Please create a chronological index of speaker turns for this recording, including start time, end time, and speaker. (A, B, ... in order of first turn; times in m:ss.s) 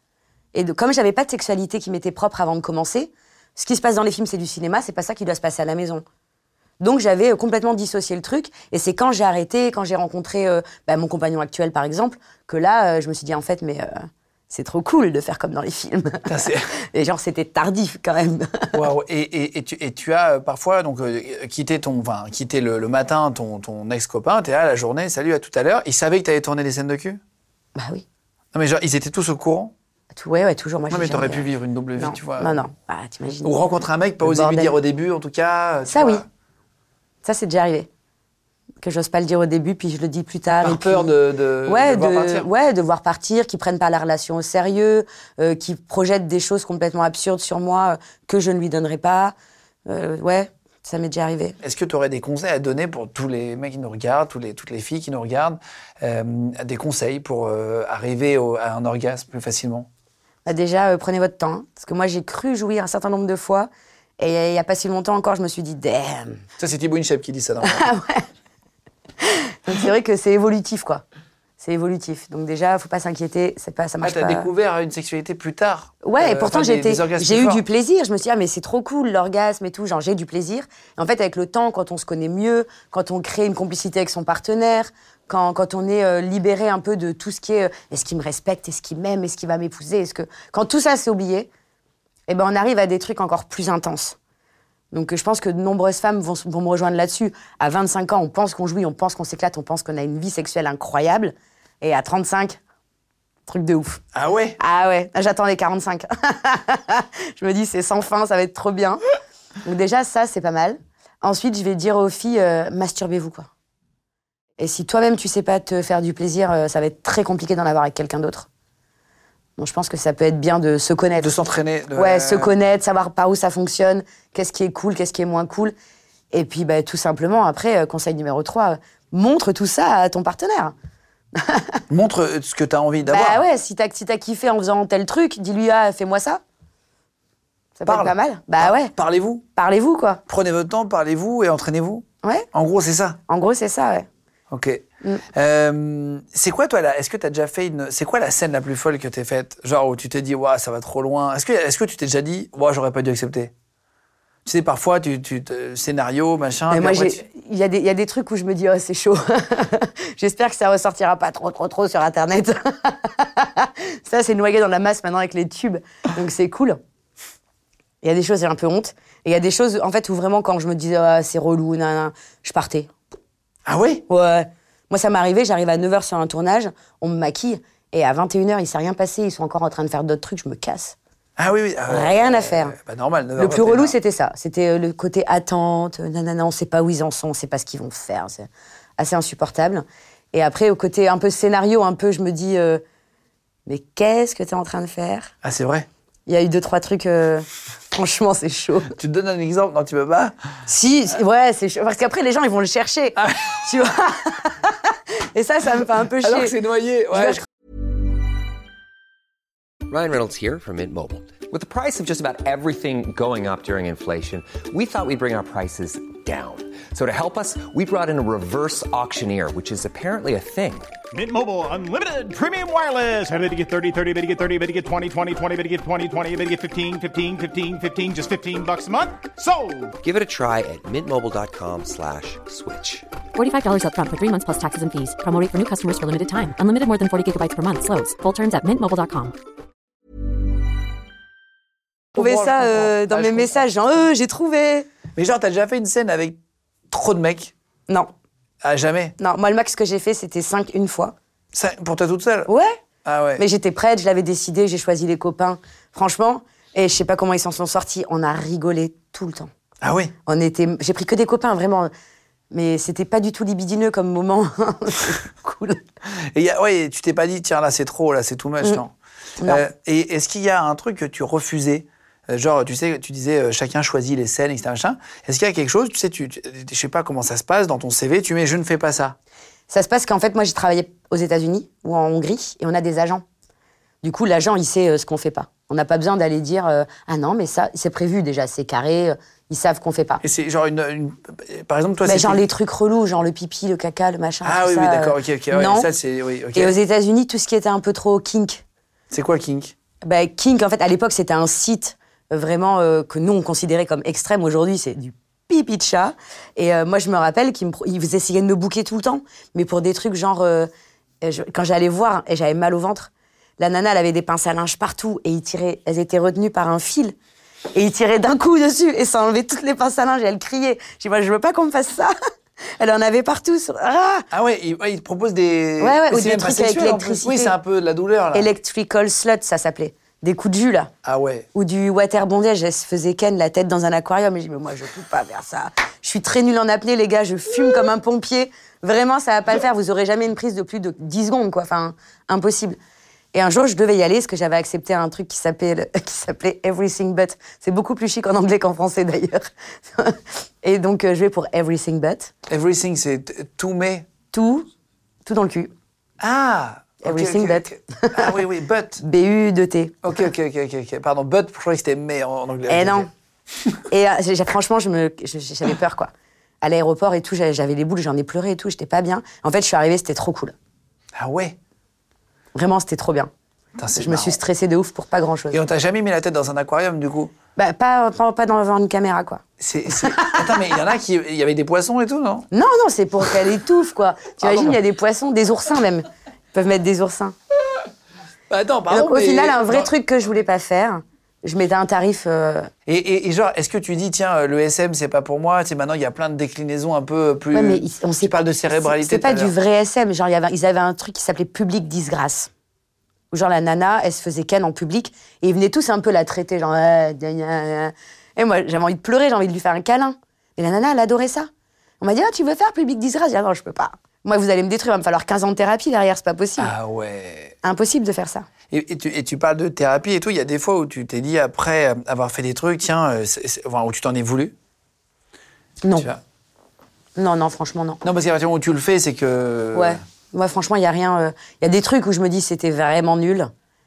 0:00.5-0:06.0 A
0:06.8-0:16.3 A
0:16.2-0:16.7 B
0:16.9-0:18.8 A
0:18.7-0:27.2 B
0:27.7-0:28.0 A
0:28.5-0:29.7 B
0:30.1-0:31.4 A
0:30.9-0:32.6 B
0:32.0-0:33.5 A
0:33.4-0:36.2 B
0:34.2-0:34.7 A
0:35.9-0:36.2 A
0:37.2-0:37.9 A
0:38.8-0:41.1 A
0:40.5-0:42.5 B
0:41.7-0:49.3 A
0:49.8-0:51.6 A
0:51.6-0:59.9 B
1:00.4-1:06.4 A
1:06.6-1:07.8 B
1:07.6-1:08.2 A
1:09.2-1:11.0 A
1:11.6-1:14.5 A
1:14.0-1:17.6 B
1:16.0-1:31.5 A
1:32.3-1:34.2 A
1:34.9-1:42.6 A
1:43.5-1:44.0 A
1:44.1-1:44.6 B
1:44.6-1:49.0 A
1:49.6-1:53.5 A
1:54.6-1:58.5 A
1:59.6-2:01.4 A
2:01.2-2:02.5 B
2:02.0-2:05.7 A
2:06.3-2:10.7 A
2:11.3-2:11.8 A
2:11.9-2:13.4 B
2:13.1-2:16.4 A
2:17.8-2:18.9 A
2:17.8-2:19.4 B
2:19.6-2:20.2 A
2:20.3-2:23.2 B
2:23.3-2:24.1 A
2:24.5-2:33.5 B
2:34.4-2:37.2 B
2:36.7-2:46.8 A
2:48.0-2:52.9 A
2:53.6-2:54.0 B
2:54.1-3:01.0 A
3:01.4-3:03.9 B
3:01.9-3:02.8 A
3:03.4-3:12.8 A
3:13.7-3:15.3 A
3:15.4-3:15.9 B
3:16.3-3:18.9 A
3:19.0-3:20.3 B
3:20.7-3:24.7 A
3:23.2-3:23.6 B
3:25.3-3:26.5 A
3:26.2-3:27.4 B
3:27.1-3:27.4 A
3:29.9-3:40.9 C
3:41.1-3:50.0 D
3:50.0-3:53.0 C
3:53.3-3:59.4 E
4:02.1-4:03.6 B
4:02.1-4:04.9 A
4:05.1-4:06.4 B
4:06.9-4:07.5 B
4:08.6-4:09.1 B
4:09.2-4:11.1 A
4:11.5-4:12.5 B
4:12.5-4:12.8 A
4:13.0-4:13.4 B
4:13.4-4:19.5 A
4:19.8-4:20.1 B
4:20.2-4:21.9 A
4:22.5-4:25.8 A
4:26.3-4:28.9 B
4:29.4-4:39.2 B
4:39.7-4:43.2 A
4:44.0-4:50.2 A
4:50.2-4:52.4 B
4:52.0-4:55.9 A
4:54.4-4:56.8 B
4:56.5-4:58.6 A
4:59.1-4:59.7 B
5:00.0-5:10.7 A
5:11.2-5:17.1 A
5:17.7-5:22.1 A
5:22.8-5:24.3 A
5:24.3-5:28.5 B
5:25.8-5:27.5 A
5:28.3-5:30.9 A
5:31.0-5:31.4 B
5:31.5-5:42.8 A
5:43.3-5:52.3 A
5:52.5-5:54.0 B
5:54.3-5:54.7 A
5:55.2-5:55.7 A
5:56.2-5:59.0 B
5:57.0-5:58.4 A
5:59.0-6:00.0 A
6:00.0-6:03.1 B
6:02.7-6:03.1 A
6:03.9-6:06.1 A
6:06.6-6:10.5 A
6:11.2-6:11.6 B
6:12.5-6:13.3 A
6:13.8-6:14.4 B
6:14.0-6:15.6 A
6:15.5-6:17.3 B
6:17.6-6:19.4 A
6:19.6-6:22.5 B
6:20.0-6:20.8 A
6:22.5-6:27.3 A
6:24.4-6:24.8 B
6:28.5-6:29.9 B
6:28.9-6:32.7 A
6:32.8-6:39.5 B
6:37.5-6:42.5 A
6:43.3-6:51.5 A
6:52.0-6:56.7 A
6:56.6-6:57.5 B
6:57.6-6:58.4 A
6:58.7-7:04.5 B
7:05.8-7:06.1 A
7:07.2-7:08.0 A
7:08.0-7:10.0 B
7:09.7-7:13.5 A